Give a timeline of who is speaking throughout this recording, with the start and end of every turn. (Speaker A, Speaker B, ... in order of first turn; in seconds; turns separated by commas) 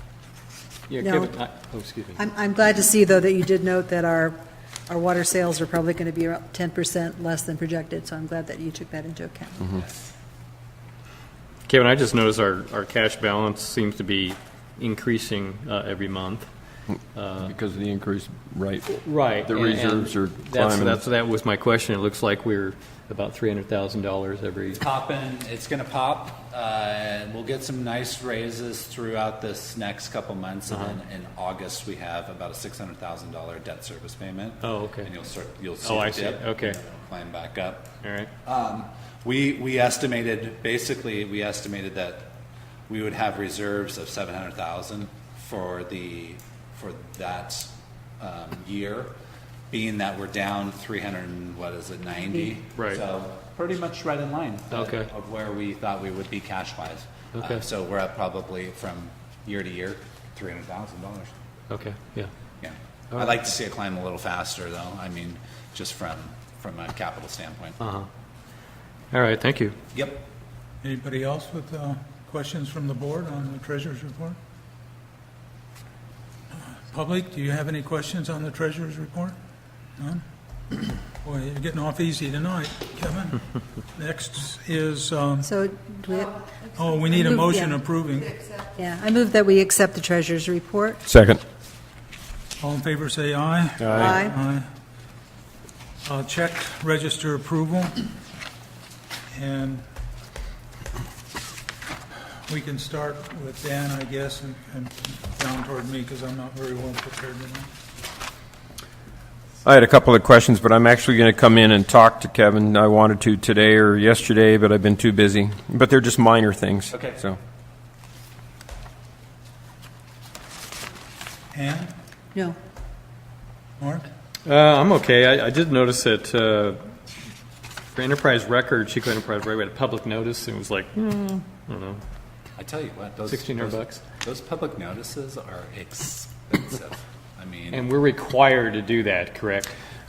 Speaker A: 0.9-2.2, Speaker B: 1.0-1.4, Speaker B: 2.2-9.8, Speaker A: 11.7-16.5, Speaker A: 17.1-17.5, Speaker C: 17.4-21.0, Speaker A: 18.9-24.8, Speaker D: 24.8-37.9, Speaker A: 30.7-30.9, Speaker A: 34.6-35.1, Speaker A: 35.8-36.8, Speaker A: 38.0-38.3, Speaker D: 38.4-42.3, Speaker D: 42.9-49.1, Speaker D: 49.7-61.3, Speaker A: 54.7-55.1, Speaker A: 57.4-57.6, Speaker A: 61.7-62.3, Speaker D: 62.6-67.8, Speaker A: 67.8-68.1, Speaker A: 69.1-69.8, Speaker D: 69.9-70.2, Speaker E: 70.8-74.4, Speaker E: 76.5-79.3, Speaker E: 80.0-83.4, Speaker E: 83.9-85.5, Speaker B: 85.4-86.4, Speaker E: 86.8-88.4, Speaker B: 87.0-87.8, Speaker B: 88.7-91.0, Speaker C: 91.1-91.4, Speaker E: 92.6-94.7, Speaker C: 93.8-94.1, Speaker B: 93.9-94.4, Speaker E: 96.0-98.1, Speaker E: 99.3-99.8, Speaker E: 102.5-107.7, Speaker C: 109.7-117.4, Speaker D: 116.9-117.2, Speaker E: 121.5-121.9, Speaker E: 123.8-124.0, Speaker A: 124.5-126.8, Speaker A: 127.9-132.0, Speaker D: 132.6-137.8, Speaker A: 133.3-134.0, Speaker A: 137.7-139.7